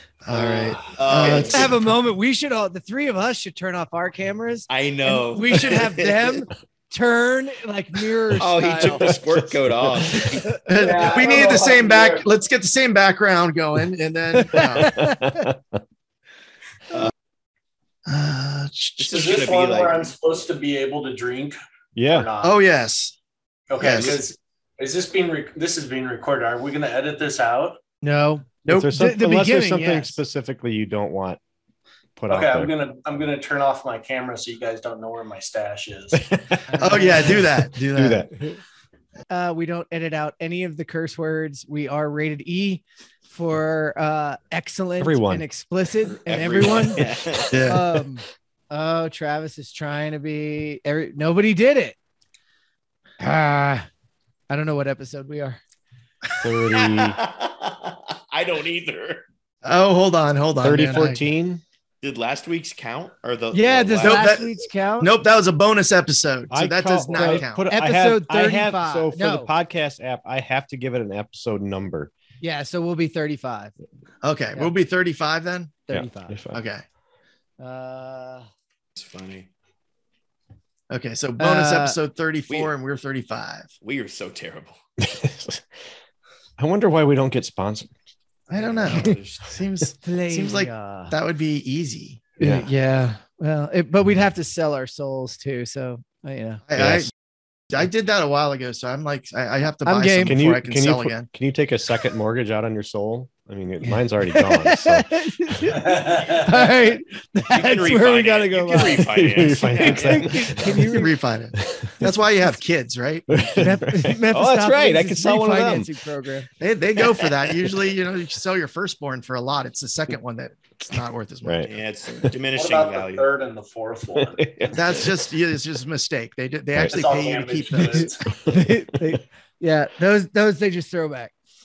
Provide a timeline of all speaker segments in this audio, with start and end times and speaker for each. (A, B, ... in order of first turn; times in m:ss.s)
0:00.2-0:01.9 A
0:00.3-0:01.8 B
0:01.4-0:09.1 C
0:04.7-0:06.4 B
0:08.4-0:10.6 B
0:09.0-0:10.3 D
0:10.6-0:15.1 A
0:10.7-0:12.3 E
0:14.5-0:15.8 D
0:14.6-0:15.4 C
0:18.0-0:19.2 A
0:19.0-0:20.1 B
0:19.1-0:22.6 E
0:22.0-0:22.3 D
0:22.4-0:23.2 A
0:23.7-0:27.8 E
0:23.8-0:24.2 A
0:28.0-0:30.2 C
0:28.7-0:31.4 D
0:32.2-0:32.7 D
0:32.3-0:36.3 E
0:36.1-0:36.8 D
0:36.7-0:37.4 C
0:36.8-0:38.3 A
0:37.4-0:38.3 D
0:39.3-0:52.0 C
0:45.0-0:45.4 D
0:46.1-0:47.8 B
0:47.5-0:47.8 A
0:53.2-0:53.9 C
0:54.5-0:55.6 C
0:56.4-0:57.2 D
0:56.7-0:59.2 B
0:59.6-1:01.2 A
1:00.6-1:01.6 D
1:02.0-1:04.3 B
1:03.5-1:05.1 C
1:04.0-1:07.7 A
1:06.5-1:12.1 D
1:07.1-1:09.5 C
1:12.4-1:13.7 C
1:14.2-1:15.8 A
1:15.9-1:16.4 C
1:15.9-1:16.6 D
1:16.5-1:16.8 A
1:17.6-1:18.5 C
1:19.0-1:19.5 B
1:20.9-1:23.7 A
1:21.4-1:22.0 C
1:22.5-1:22.7 B
1:23.8-1:24.8 B
1:25.0-1:25.6 D
1:26.6-1:27.9 D
1:28.5-1:29.6 B
1:28.5-1:32.2 A
1:30.0-1:31.1 C
1:32.4-1:36.6 C
1:32.4-1:32.7 D
1:36.7-1:37.1 A
1:36.7-1:37.1 D
1:37.7-1:41.2 A
1:39.8-1:40.4 C
1:40.2-1:45.6 D
1:43.8-1:49.1 C
1:45.7-1:46.7 E
1:47.5-1:50.8 B
1:49.1-1:51.0 D
1:49.6-1:51.1 C
1:50.6-1:53.3 A
1:51.6-1:52.1 D
1:53.3-1:55.9 D
1:53.5-1:56.5 C
1:56.6-2:01.7 A
2:01.4-2:02.3 D
2:01.6-2:03.3 B
2:02.5-2:04.4 E
2:04.1-2:05.3 D
2:04.7-2:08.1 A
2:06.9-2:08.3 E
2:08.3-2:09.2 D
2:08.5-2:11.3 C